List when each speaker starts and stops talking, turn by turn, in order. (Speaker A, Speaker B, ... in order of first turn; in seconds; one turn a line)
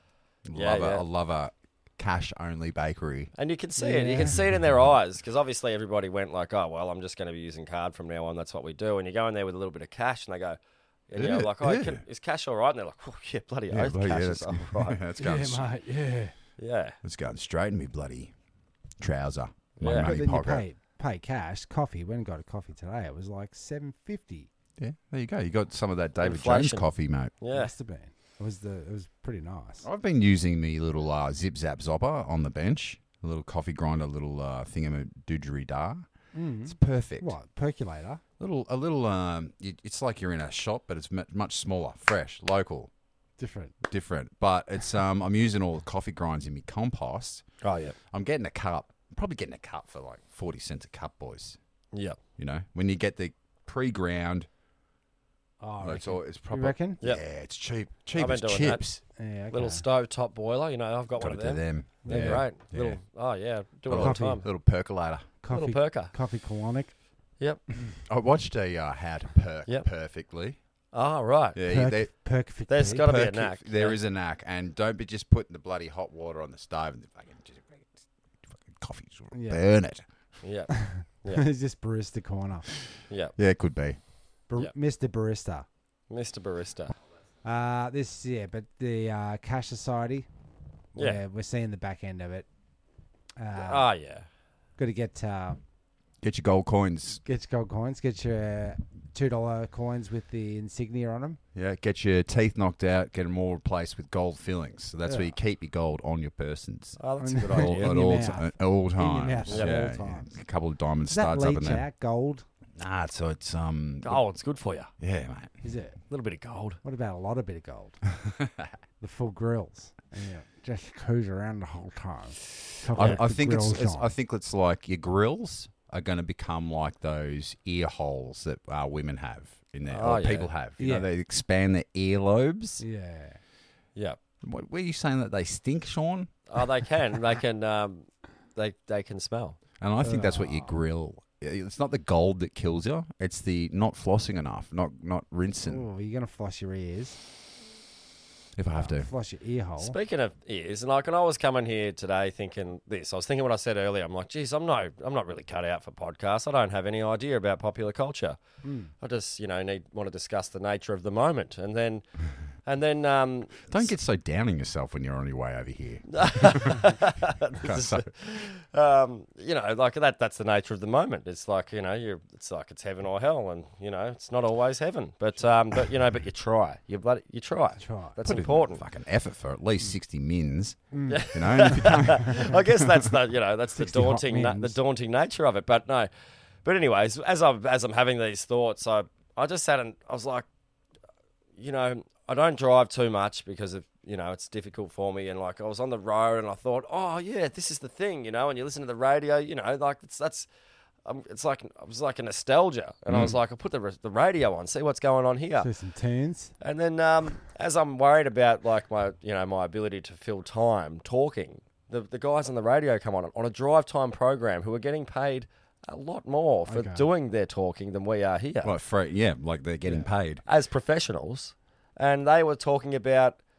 Speaker A: 0.4-3.3
Speaker B: 0.5-1.0
Speaker B: 3.3-15.0
Speaker C: 3.8-4.3
Speaker A: 11.1-12.0
Speaker A: 13.7-15.7
Speaker C: 15.2-16.3
Speaker B: 16.6-16.9
Speaker A: 17.0-18.3
Speaker A: 19.0-20.6
Speaker B: 19.8-20.1
Speaker C: 20.0-24.5
Speaker A: 24.8-27.3
Speaker B: 26.2-26.9
Speaker B: 27.4-27.7
Speaker C: 27.5-29.9
Speaker A: 29.8-36.1
Speaker C: 36.3-38.2
Speaker A: 36.6-37.3
Speaker A: 38.4-42.9
Speaker C: 43.4-43.7
Speaker A: 43.9-47.4
Speaker B: 47.6-48.0
Speaker A: 48.1-51.6
Speaker B: 51.9-52.2
Speaker A: 52.4-54.5
Speaker C: 55.6-57.0
Speaker A: 55.8-59.0
Speaker B: 58.1-58.8
Speaker C: 59.1-59.8
Speaker B: 59.5-64.5
Speaker A: 61.2-63.0
Speaker C: 62.1-62.5
Speaker A: 63.9-65.3
Speaker C: 63.9-64.6
Speaker C: 65.4-66.9
Speaker B: 65.5-66.1
Speaker A: 68.0-70.6
Speaker B: 70.9-71.6
Speaker A: 71.5-72.1
Speaker C: 71.7-73.0
Speaker B: 72.7-74.0
Speaker A: 73.0-80.0
Speaker C: 79.3-79.6
Speaker B: 80.4-81.4
Speaker C: 80.8-82.7
Speaker B: 83.1-83.3
Speaker A: 83.4-84.0
Speaker C: 84.5-85.7
Speaker B: 86.1-87.0
Speaker C: 87.4-90.3
Speaker C: 90.9-92.5
Speaker B: 91.0-91.2
Speaker C: 93.4-93.9
Speaker B: 93.6-94.2
Speaker C: 94.8-95.6
Speaker A: 96.2-97.2
Speaker C: 97.2-101.4
Speaker A: 101.5-107.0
Speaker C: 105.0-105.3
Speaker B: 107.0-107.9
Speaker C: 107.2-110.3
Speaker A: 107.5-111.8
Speaker B: 109.5-109.7
Speaker C: 111.1-112.4
Speaker A: 112.7-114.2
Speaker B: 114.0-114.9
Speaker A: 115.0-115.5
Speaker C: 115.6-116.0
Speaker B: 116.1-116.8
Speaker C: 116.8-118.0
Speaker A: 118.3-118.7
Speaker C: 119.0-124.1
Speaker A: 122.9-132.8
Speaker B: 129.9-130.5
Speaker C: 130.8-131.1
Speaker C: 132.8-133.4
Speaker A: 134.4-136.3
Speaker B: 136.5-139.6
Speaker A: 139.8-145.8
Speaker C: 140.0-140.7
Speaker C: 145.6-147.2
Speaker A: 148.6-149.1
Speaker C: 148.7-149.9
Speaker B: 149.8-158.4
Speaker C: 158.6-158.9
Speaker B: 159.0-162.1
Speaker B: 162.6-163.7
Speaker A: 163.7-166.9
Speaker B: 166.1-178.8
Speaker A: 167.6-168.1
Speaker C: 177.8-178.2
Speaker A: 178.2-182.8
Speaker C: 180.9-182.5
Speaker B: 181.1-186.1
Speaker C: 183.8-184.8
Speaker B: 186.6-190.4
Speaker B: 191.6-200.5
Speaker B: 201.0-205.7
Speaker A: 203.1-203.4
Speaker C: 205.6-206.5
Speaker B: 206.6-218.7
Speaker C: 216.7-217.1
Speaker A: 218.6-220.4
Speaker B: 220.4-223.4